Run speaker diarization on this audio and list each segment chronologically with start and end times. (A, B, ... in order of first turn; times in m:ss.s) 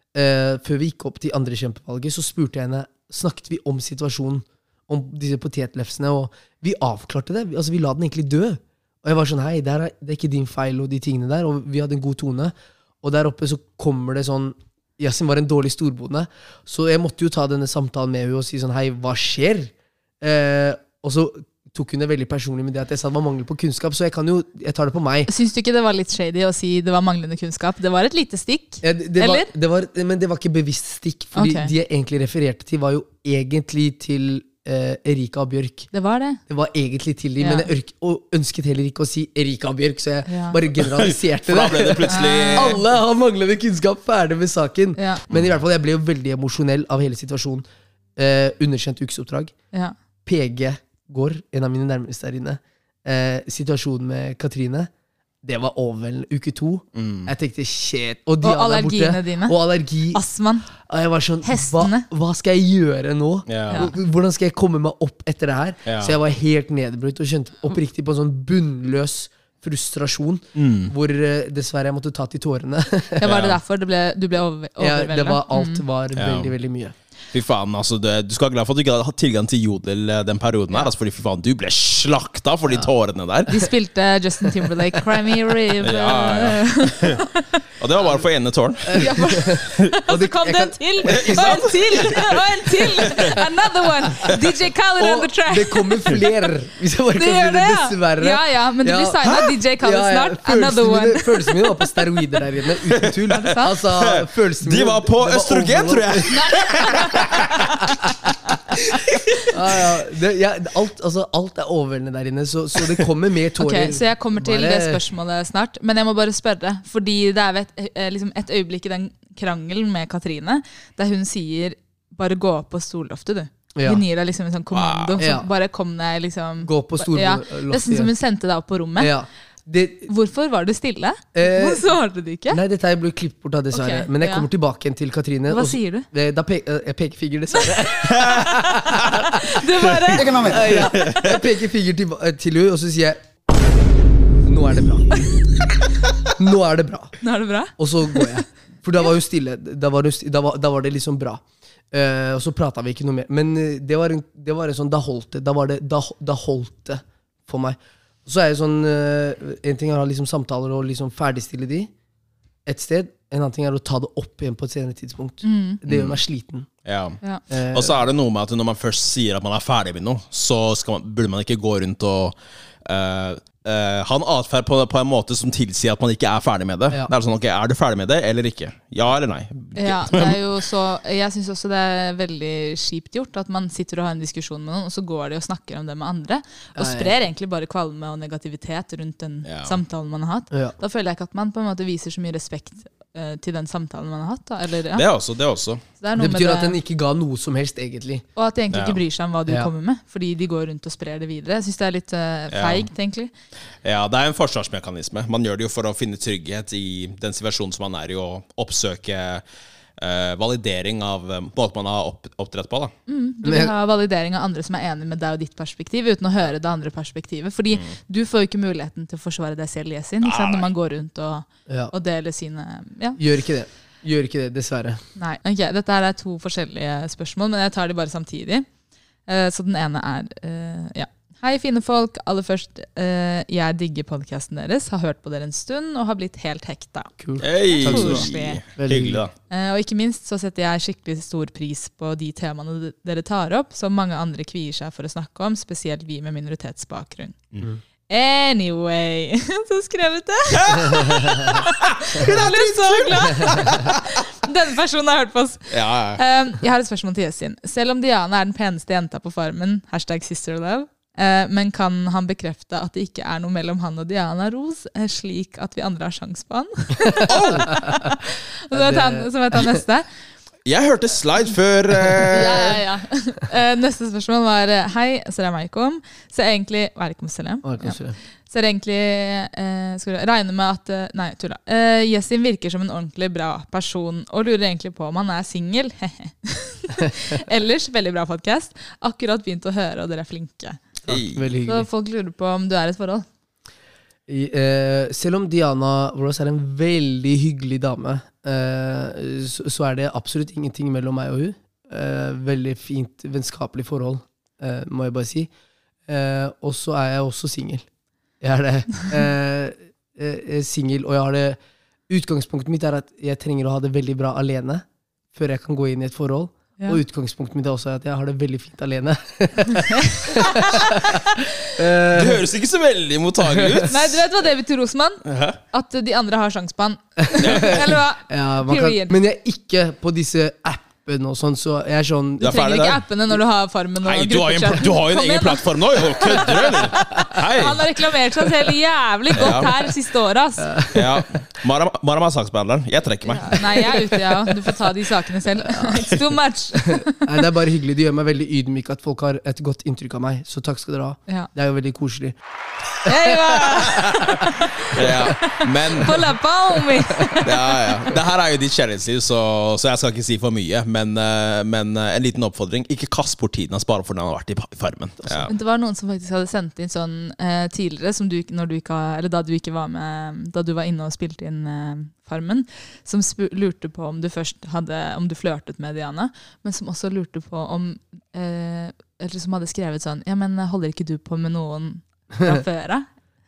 0:00.1-0:25.3 A
0:25.3-0:29.5 B
0:28.8-0:35.9 A
0:31.4-0:31.7 B
0:35.9-0:36.4 B
0:36.5-0:47.6 A
0:37.4-0:37.7 B
0:40.3-0:40.6 B
0:40.8-0:42.8 C
0:42.1-0:42.8 B
0:45.0-0:45.2 B
0:48.2-0:49.5 A
0:50.3-0:54.9 A
0:55.4-1:00.2 A
0:57.0-0:57.3 C
0:58.4-0:59.6 B
1:00.1-1:00.7 B
1:00.8-1:13.3 A
1:01.4-1:02.1 B
1:03.5-1:03.9 C
1:05.9-1:06.1 C
1:10.6-1:10.9 C
1:13.2-1:15.8 B
1:13.2-1:13.6 C
1:14.8-1:16.9 A
1:16.2-1:16.5 C
1:17.3-1:23.6 C
1:23.5-1:27.6 B
1:25.8-1:27.3 C
1:27.8-1:29.8 C
1:28.8-1:32.2 A
1:28.9-1:36.3 B
1:31.0-1:33.4 C
1:33.1-1:33.4 A
1:35.0-1:46.4 A
1:37.2-1:41.9 B
1:42.9-1:47.9 C
1:43.3-1:43.8 B
1:46.3-1:47.6 B
1:48.5-1:49.4 B
1:48.9-1:49.5 C
1:49.5-1:55.0 A
1:53.6-2:09.1 B
2:03.8-2:04.0 A
2:04.7-2:05.2 C
2:05.2-2:05.5 A
2:06.6-2:08.1 A
2:09.0-2:10.1 A
2:10.1-2:12.6 B
2:11.3-2:12.0 A
2:12.5-2:19.6 A
2:13.7-2:14.5 B
2:15.5-2:16.1 B
2:17.6-2:20.8 B
2:18.1-2:18.5 C
2:20.1-2:21.4 C
2:20.2-2:23.2 A
2:24.4-2:25.1 A
2:26.4-2:27.2 A
2:27.2-2:28.3 B
2:27.8-2:41.9 A
2:42.7-2:46.7 A
2:45.4-2:45.8 B
2:45.9-2:46.2 C
2:46.8-3:00.4 C
2:47.5-2:48.0 A
2:59.8-3:15.1 B
3:06.8-3:07.1 A
3:09.5-3:09.8 C
3:14.9-3:15.8 C
3:16.0-3:16.8 B
3:16.2-3:18.2 A
3:18.4-3:23.3 B
3:18.7-3:19.0 C
3:22.5-3:22.9 C
3:23.8-3:29.4 C
3:30.0-3:32.9 C
3:33.1-3:43.2 B
3:33.4-3:33.7 A
3:40.2-3:40.7 C
3:41.7-3:41.9 A
3:43.2-3:45.0 A
3:45.2-3:48.7 B
3:49.3-3:58.6 B
3:57.2-3:59.2 A
3:57.4-3:59.3 C
3:59.5-4:07.4 B
4:08.1-4:30.1 B
4:10.5-4:14.2 C
4:15.7-4:16.2 C
4:27.1-4:27.9 A
4:27.2-4:27.8 C
4:28.7-4:29.8 A
4:30.7-4:32.8 C
4:32.2-4:50.8 B
4:37.6-4:38.2 A
4:51.1-4:51.9 A
4:51.1-4:51.5 C
4:51.6-4:53.2 B
4:54.3-5:05.5 A
5:06.1-5:07.9 A
5:08.4-5:11.6 A
5:12.1-5:22.4 A
5:19.7-5:21.5 B
5:22.0-5:24.2 C
5:23.4-5:23.9 A
5:23.9-5:29.2 B
5:25.2-5:25.6 C
5:27.3-5:32.6 A
5:27.4-5:27.9 C
5:32.4-5:33.0 C
5:32.4-5:40.8 B
5:34.0-5:37.8 C
5:39.4-5:39.7 C
5:40.6-5:41.3 A
5:40.9-5:44.0 C
5:43.3-5:47.4 B
5:45.6-5:46.2 A
5:46.7-5:52.4 A
5:53.0-5:58.1 B
5:53.0-5:54.5 A
5:53.9-5:56.3 C
5:57.3-6:05.5 C
6:05.3-6:05.5 A
6:05.5-6:23.1 B
6:22.4-6:22.6 A